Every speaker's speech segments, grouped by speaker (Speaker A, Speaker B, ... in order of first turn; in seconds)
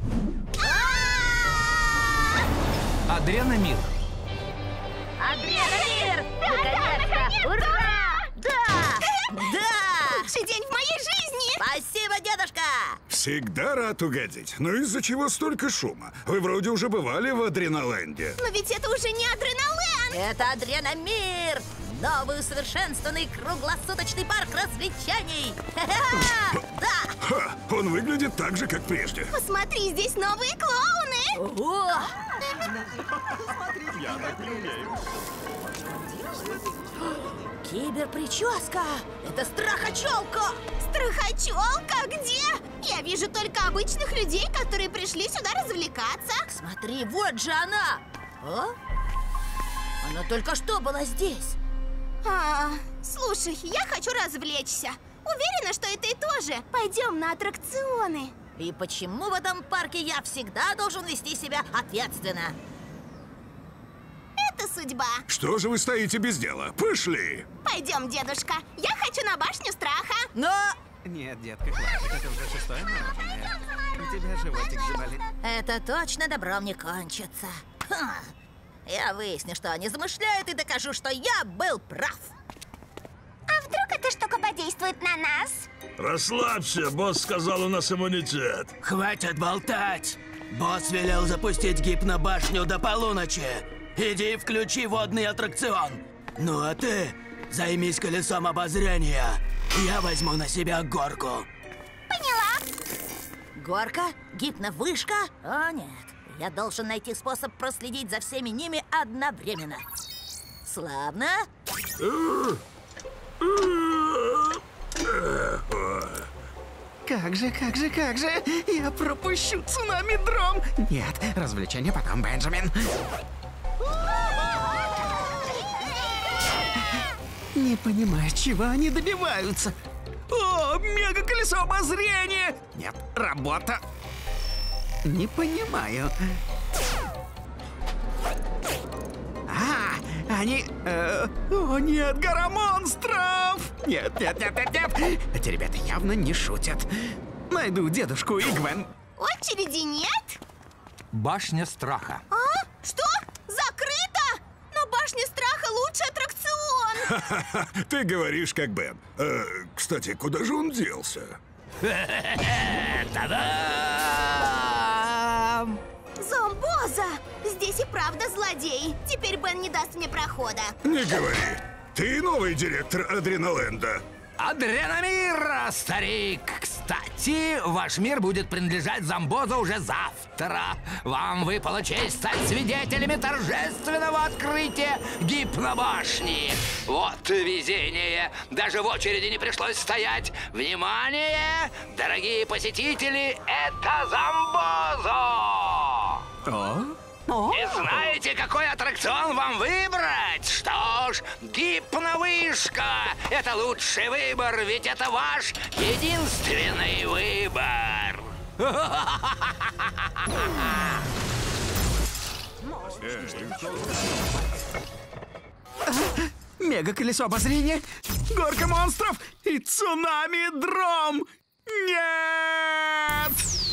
Speaker A: 0.6-2.1, 5.2-10.3, 11.6-13.0, 20.1-27.1, 31.3-32.3, 37.3-40.6, 46.5-48.7, 50.0-51.6, 58.6-62.6, 70.3-70.8, 75.4-78.3, 78.9-82.3, 103.6-109.8, 110.7-111.5
Speaker B: 3.1-3.9, 151.1-152.2, 161.8-165.8, 174.4-196.2, 197.5-210.9
Speaker C: 5.3-8.3, 9.1-9.4, 10.1-11.6, 18.4-20.2, 29.3-31.3, 40.8-46.4, 52.2-58.3, 64.4-65.2, 67.6-70.3, 83.6-85.6, 102.1-102.7, 149.2-150.4, 152.3-157.2, 166.2-170.8
Speaker D: 13.1-18.4, 27.2-29.3, 34.1-34.7, 65.3-67.5, 157.1-161.4, 170.8-174.0, 212.9-214.1
Speaker E: 71.0-75.3, 117.0-122.9, 127.5-129.7, 130.3-133.8, 135.1-136.1, 139.5-148.9, 196.4-197.8, 215.9-223.4
Speaker F: 86.1-88.5
Speaker G: 88.8-101.5